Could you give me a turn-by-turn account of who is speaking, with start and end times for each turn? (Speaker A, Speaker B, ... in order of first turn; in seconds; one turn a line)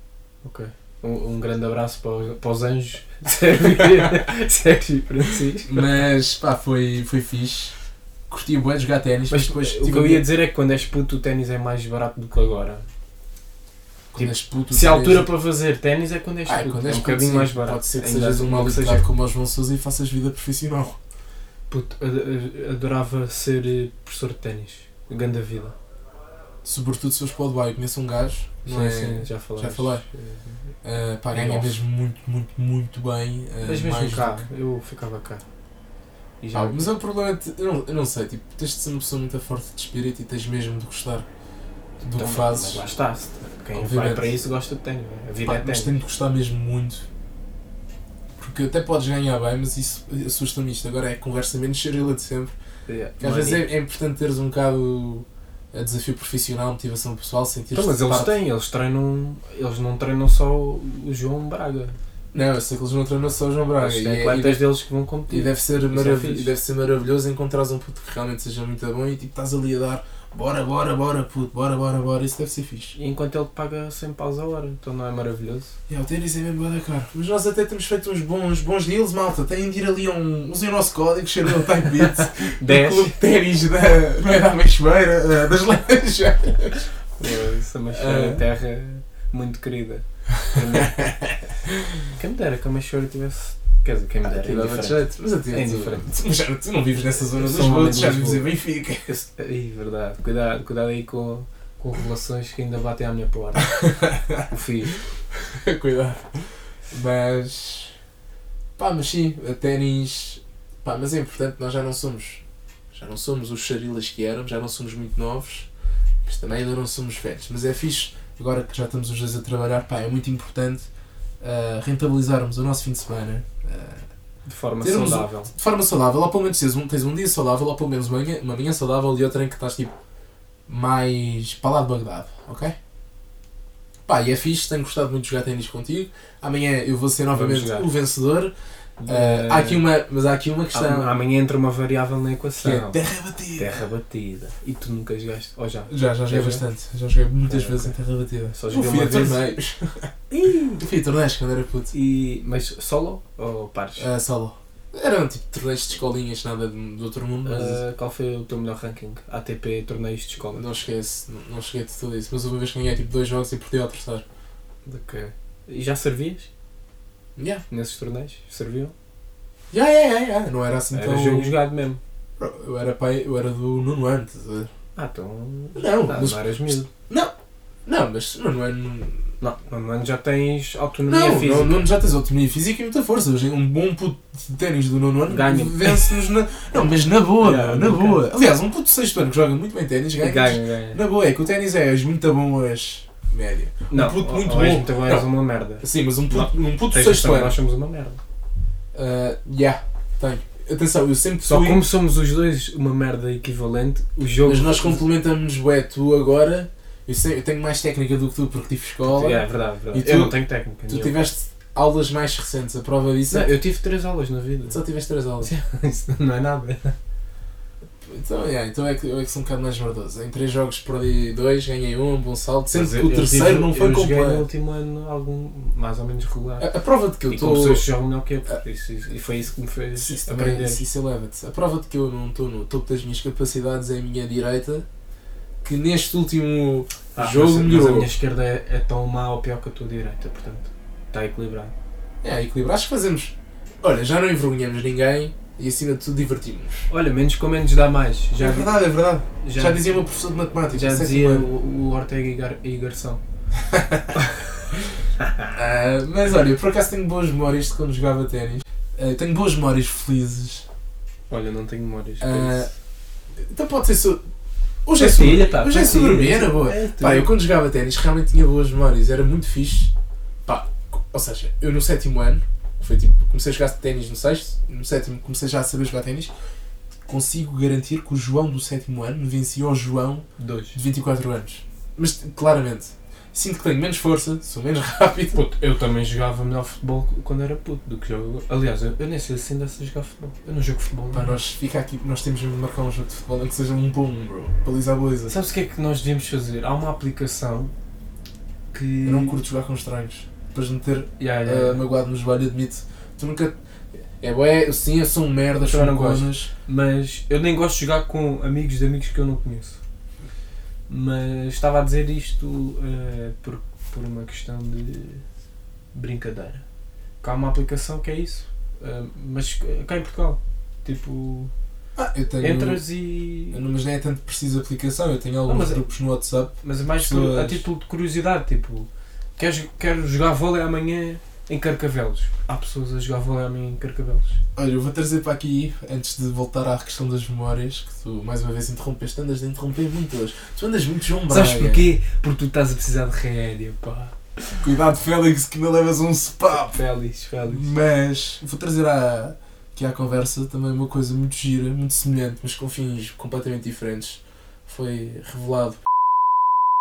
Speaker A: 0.4-5.9
Speaker B: 5.7-7.8
Speaker B: 8.3-10.2
Speaker A: 9.3-12.8
Speaker B: 14.1-15.3
Speaker A: 14.1-19.1
Speaker B: 16.4-21.0
Speaker A: 21.7-25.8
Speaker B: 26.6-30.0
Speaker A: 28.6-30.6
Speaker B: 30.8-34.4
Speaker A: 31.3-31.8
Speaker A: 33.6-35.4
Speaker A: 36.4-36.9
Speaker B: 36.5-41.3
Speaker B: 42.0-42.9
Speaker A: 42.1-45.9
Speaker B: 43.7-44.3
Speaker B: 45.4-47.1
Speaker B: 48.4-52.5
Speaker A: 52.9-53.6
Speaker B: 53.2-58.4
Speaker A: 57.7-61.9
Speaker B: 62.3-64.6
Speaker A: 63.8-66.5
Speaker B: 65.3-73.0
Speaker A: 73.0-75.8
Speaker B: 75.9-86.9
Speaker A: 82.6-83.2
Speaker A: 87.2-91.1
Speaker B: 87.9-88.4
Speaker B: 90.7-91.3
Speaker A: 92.1-96.1
Speaker B: 94.2-99.1
Speaker A: 97.3-98.5
Speaker A: 99.1-103.8
Speaker B: 103.7-104.5
Speaker A: 104.5-104.9
Speaker B: 105.4-106.3
Speaker B: 106.9-107.9
Speaker B: 108.8-115.7
Speaker B: 116.2-120.9
Speaker B: 121.4-124.0
Speaker A: 124.4-125.5
Speaker B: 124.8-129.9
Speaker B: 130.7-132.8
Speaker B: 134.1-138.5
Speaker A: 137.3-137.9
Speaker A: 139.0-139.8
Speaker B: 139.1-141.2
Speaker A: 140.7-146.6
Speaker B: 142.6-143.8
Speaker B: 145.9-150.1
Speaker A: 147.5-147.9
Speaker A: 148.5-149.4
Speaker A: 150.3-150.8
Speaker B: 150.8-151.9
Speaker A: 151.9-154.1
Speaker B: 154.0-157.8
Speaker A: 157.4-160.6
Speaker B: 160.5-164.2
Speaker A: 164.8-166.5
Speaker B: 167.4-167.6
Speaker A: 167.7-168.9
Speaker B: 169.7-171.6
Speaker A: 170.9-172.0
Speaker B: 172.4-174.7
Speaker A: 174.9-176.9
Speaker B: 175.8-177.3
Speaker B: 177.9-179.2
Speaker A: 179.4-181.9
Speaker B: 181.1-195.3
Speaker A: 185.3-186.2
Speaker A: 187.4-188.2
Speaker A: 190.2-191.0
Speaker A: 193.9-198.2
Speaker B: 195.8-197.6
Speaker B: 198.9-201.8
Speaker A: 201.4-205.0
Speaker B: 204.4-210.3
Speaker A: 209.0-211.2
Speaker B: 210.9-213.6
Speaker A: 213.3-214.8
Speaker B: 214.7-215.5
Speaker A: 215.4-216.9
Speaker B: 218.0-224.5
Speaker A: 222.7-226.7
Speaker B: 226.6-227.8
Speaker A: 227.3-230.8
Speaker B: 229.9-234.9
Speaker B: 235.6-238.1
Speaker A: 237.2-241.7
Speaker B: 242.2-246.8
Speaker A: 246.9-248.7
Speaker B: 248.4-251.5
Speaker A: 249.3-250.0
Speaker A: 250.7-253.2
Speaker B: 253.7-254.1
Speaker A: 255.2-255.4
Speaker B: 255.5-260.6
Speaker A: 261.3-262.7
Speaker B: 262.2-262.7
Speaker B: 263.4-264.2
Speaker B: 264.9-269.9
Speaker A: 264.9-267.3
Speaker B: 270.4-276.3
Speaker B: 277.1-285.4
Speaker A: 280.4-280.8
Speaker A: 285.3-291.4
Speaker B: 291.1-295.4
Speaker A: 295.3-297.7
Speaker A: 298.7-299.4
Speaker B: 299.0-303.5
Speaker A: 301.2-301.8
Speaker B: 304.2-306.5
Speaker A: 305.6-309.8
Speaker A: 310.9-315.2
Speaker A: 315.9-316.6
Speaker A: 317.2-321.5
Speaker B: 321.9-322.9
Speaker A: 322.4-323.6
Speaker B: 323.5-327.6
Speaker A: 325.4-325.9
Speaker A: 326.6-334.4
Speaker B: 334.6-341.9
Speaker A: 341.3-344.7
Speaker B: 344.6-346.8
Speaker A: 346.5-347.7
Speaker B: 347.4-355.8